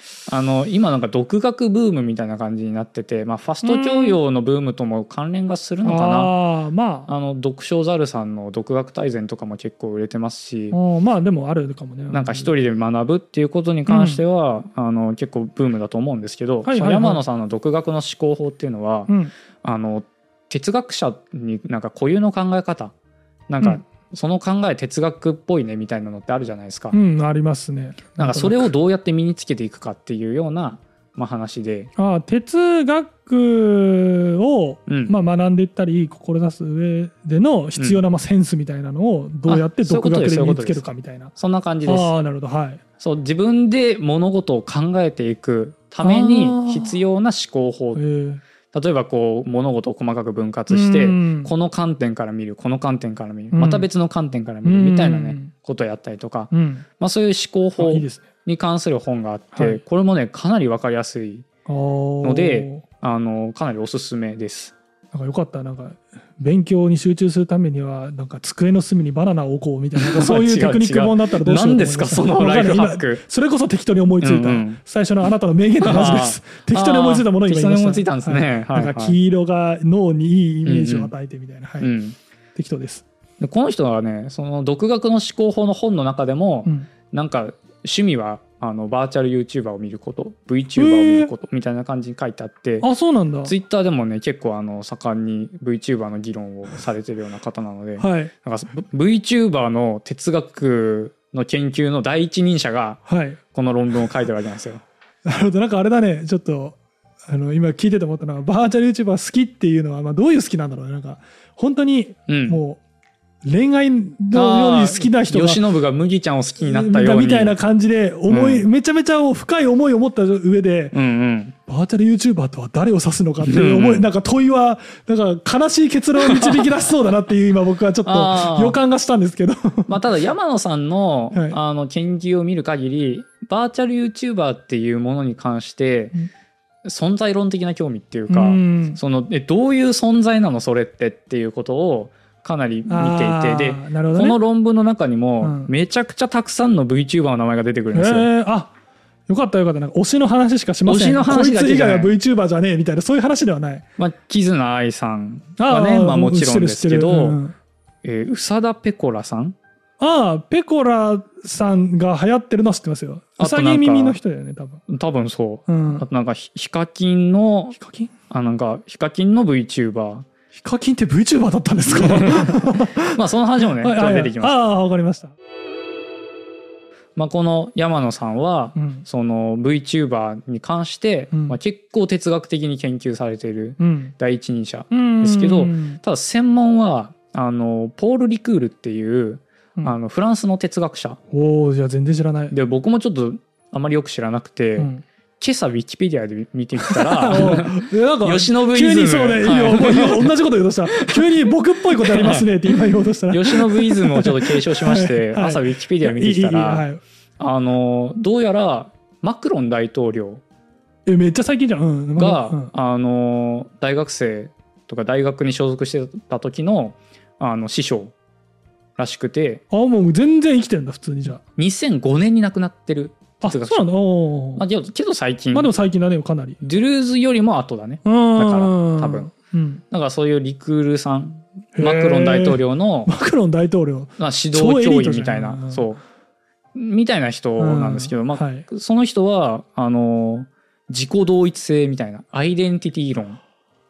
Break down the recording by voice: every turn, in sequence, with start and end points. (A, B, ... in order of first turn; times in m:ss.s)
0:00.3-0:06.3 A
0:03.6-0:04.2 B
0:05.8-0:07.1 B
0:07.1-0:10.8 A
0:10.7-0:12.5 B
0:12.1-0:22.9 A
0:13.9-0:14.2 B
0:16.6-0:17.2 B
0:23.5-0:27.0 A
0:26.9-0:28.7 B
0:28.2-0:31.9 A
0:32.0-0:41.3 B
0:34.9-0:35.1 A
0:39.5-0:40.8 A
0:41.4-0:42.1 A
0:41.9-0:42.8 B
0:43.0-0:48.0 A
0:46.0-0:47.0 B
0:48.0-0:48.4 B
0:48.7-1:01.5 A
0:50.7-0:51.5 B
0:53.5-0:53.9 B
0:54.6-0:55.5 B
0:56.5-0:56.8 B
0:57.8-0:58.3 B
0:59.6-0:59.8 B
1:01.7-1:02.8 B
1:02.2-1:04.7 A
1:05.1-1:21.9 B
1:10.0-1:13.2 A
1:14.2-1:14.8 A
1:15.8-1:19.2 A
1:20.6-1:21.1 A
1:21.8-1:22.2 A
1:22.6-1:23.0 B
1:23.4-1:32.9 A
1:30.8-1:31.3 B
1:32.8-1:33.5 B
1:33.4-1:43.0 A
1:38.0-1:38.3 B
1:43.1-1:43.4 B
1:43.5-1:44.8 A
1:45.2-1:52.8 B
1:52.3-1:52.6 A
1:53.4-1:55.6 B
1:54.3-1:57.6 A
1:56.6-2:01.0 B
1:58.3-1:58.7 A
2:00.9-2:01.6 A
2:01.7-2:10.0 B
2:03.4-2:04.1 A
2:06.2-2:06.6 A
2:08.0-2:08.8 A
2:09.9-2:16.2 A
2:11.3-2:11.6 B
2:16.8-2:28.3 A
2:18.3-2:19.0 B
2:22.9-2:24.4 B
2:25.4-2:25.7 B
2:27.9-2:28.7 B
2:29.3-2:33.8 B
2:30.9-2:32.1 A
2:34.0-2:37.4 A
2:35.6-2:37.6 B
2:38.0-2:39.6 A
2:40.0-2:44.8 B
2:43.4-2:44.2 A
2:44.9-2:47.8 A
2:45.7-2:46.1 B
2:47.7-2:48.1 B
2:48.3-2:50.3 A
2:50.5-2:55.3 B
2:51.9-2:54.6 A
2:57.2-3:11.2 A
2:58.8-2:59.0 B
3:01.3-3:01.6 B
3:03.8-3:04.1 B
3:04.9-3:06.0 B
3:11.3-3:12.5 B
3:12.5-3:20.4 A
3:14.8-3:15.0 B
3:16.9-3:27.0 B
3:20.9-3:22.5 A
3:23.3-3:26.8 A
3:27.4-3:30.4 A
3:31.1-3:32.7 B
3:32.2-3:38.1 A
3:39.0-3:39.6 A
3:39.7-3:41.4 B
3:41.6-3:43.9 A
3:43.4-3:44.6 B
3:44.6-3:45.7 A
3:45.5-3:46.6 B
3:46.6-3:49.3 A
3:48.0-3:49.8 B
3:49.9-3:53.1 A
3:51.8-3:55.8 B
3:54.2-3:56.0 A
3:56.8-4:03.4 A
3:57.6-3:58.7 B